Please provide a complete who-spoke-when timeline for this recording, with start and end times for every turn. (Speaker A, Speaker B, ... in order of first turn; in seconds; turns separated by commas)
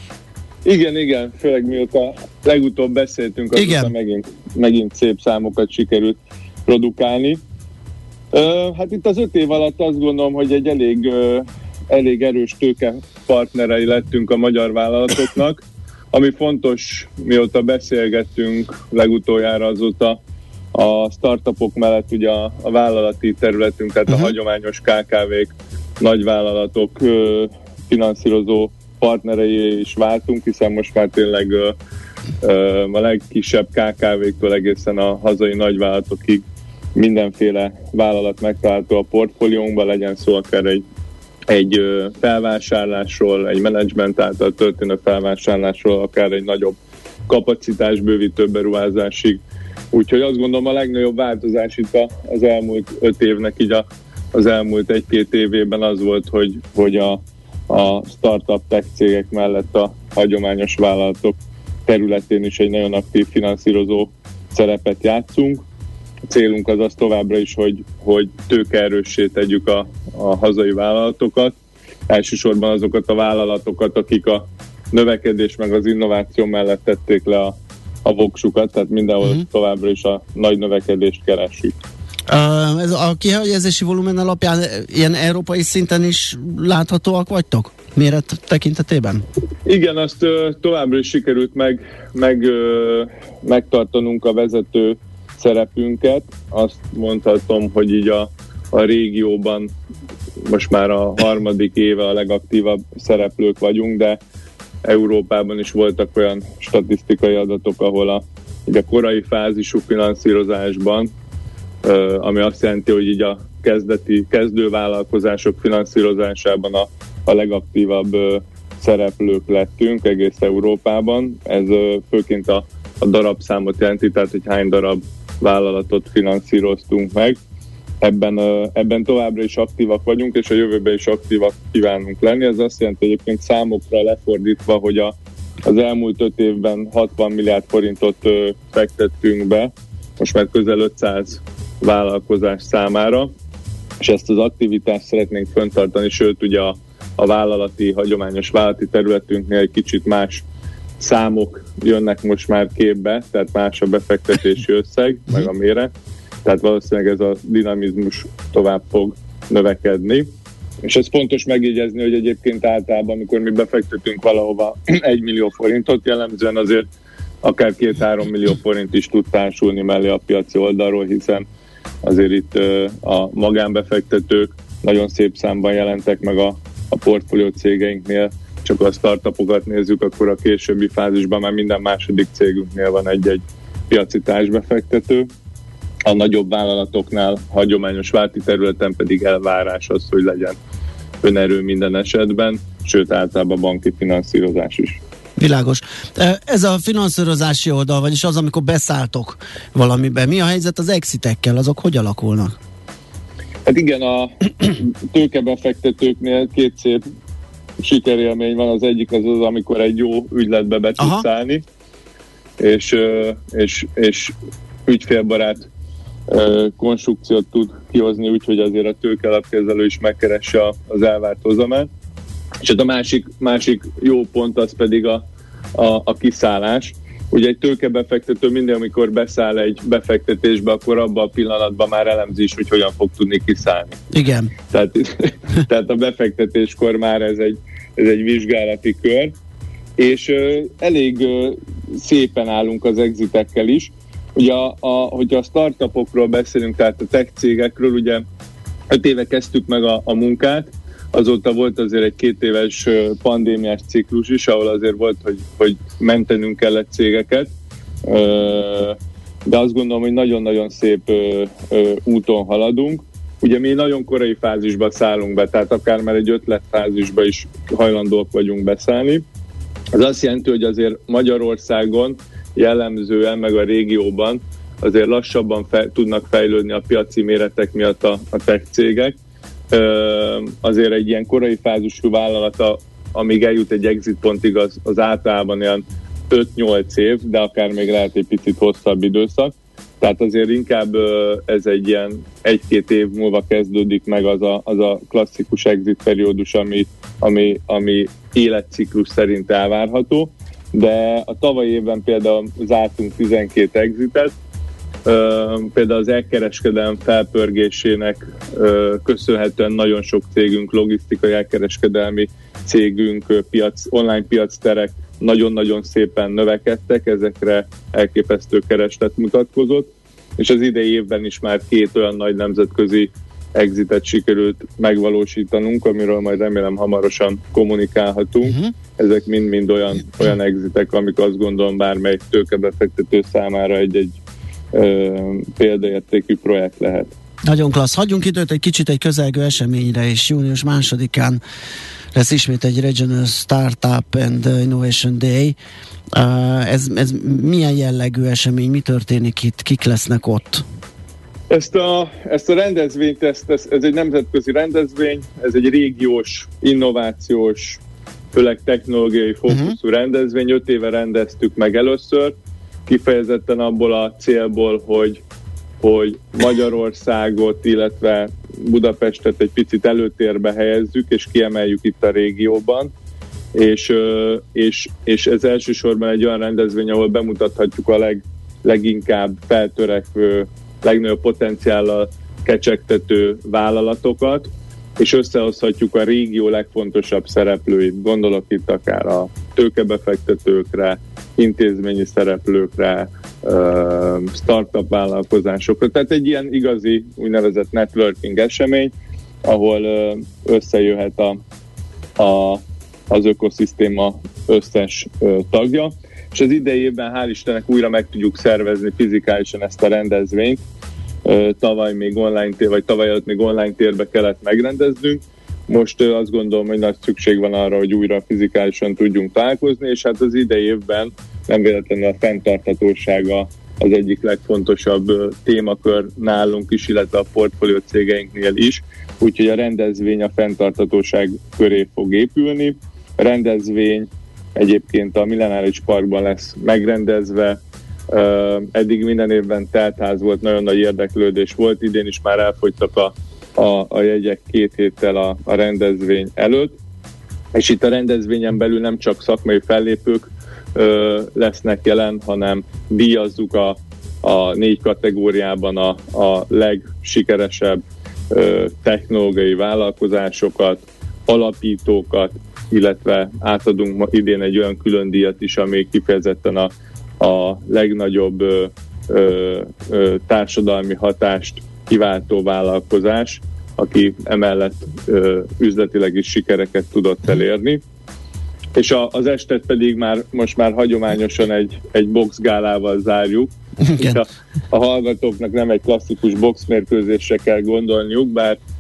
Speaker A: 0.7-7.4, Speaker B: 3.5-3.9, Speaker A: 8.3-20.2, Speaker A: 20.8-31.8, Speaker A: 32.4-36.4, Speaker A: 37.0-40.8, Speaker A: 41.5-46.8, Speaker A: 47.3-49.4, Speaker A: 49.9-65.6, Speaker A: 66.3-71.6, Speaker A: 72.1-81.8, Speaker B: 82.3-89.2, Speaker A: 89.7-99.7, Speaker A: 100.5-104.2, Speaker A: 104.8-111.1, Speaker A: 111.8-127.4, Speaker A: 128.0-135.2, Speaker A: 135.7-143.3, Speaker A: 144.0-150.4, Speaker A: 151.0-155.9, Speaker A: 156.4-160.3, Speaker A: 160.8-166.9, Speaker A: 167.4-171.5, Speaker A: 172.1-185.3, Speaker A: 186.1-190.6, Speaker A: 191.2-195.0, Speaker B: 195.4-202.6, Speaker A: 203.7-207.0, Speaker A: 207.8-211.6, Speaker B: 211.0-211.2, Speaker A: 212.6-214.3, Speaker A: 214.9-215.7, Speaker A: 216.3-221.9, Speaker A: 222.6-225.2, Speaker A: 225.8-234.0, Speaker B: 234.1-234.5, Speaker A: 234.7-239.3, Speaker A: 240.0-248.2, Speaker A: 248.9-257.5, Speaker A: 258.1-259.0, Speaker A: 259.5-269.2, Speaker A: 269.9-279.2, Speaker A: 279.7-304.4, Speaker A: 305.1-334.2, Speaker B: 328.4-328.7, Speaker A: 334.7-337.1, Speaker B: 337.5-341.4, Speaker B: 342.1-345.6, Speaker B: 346.1-350.6, Speaker A: 351.5-357.8, Speaker A: 358.3-362.4, Speaker B: 359.5-359.8, Speaker A: 362.9-365.2, Speaker A: 365.8-372.9, Speaker A: 373.6-398.9, Speaker A: 399.5-401.4, Speaker A: 402.2-410.6, Speaker A: 411.2-437.6, Speaker A: 438.1-446.8, Speaker A: 447.5-477.8, Speaker A: 478.8-488.6, Speaker B: 483.9-484.2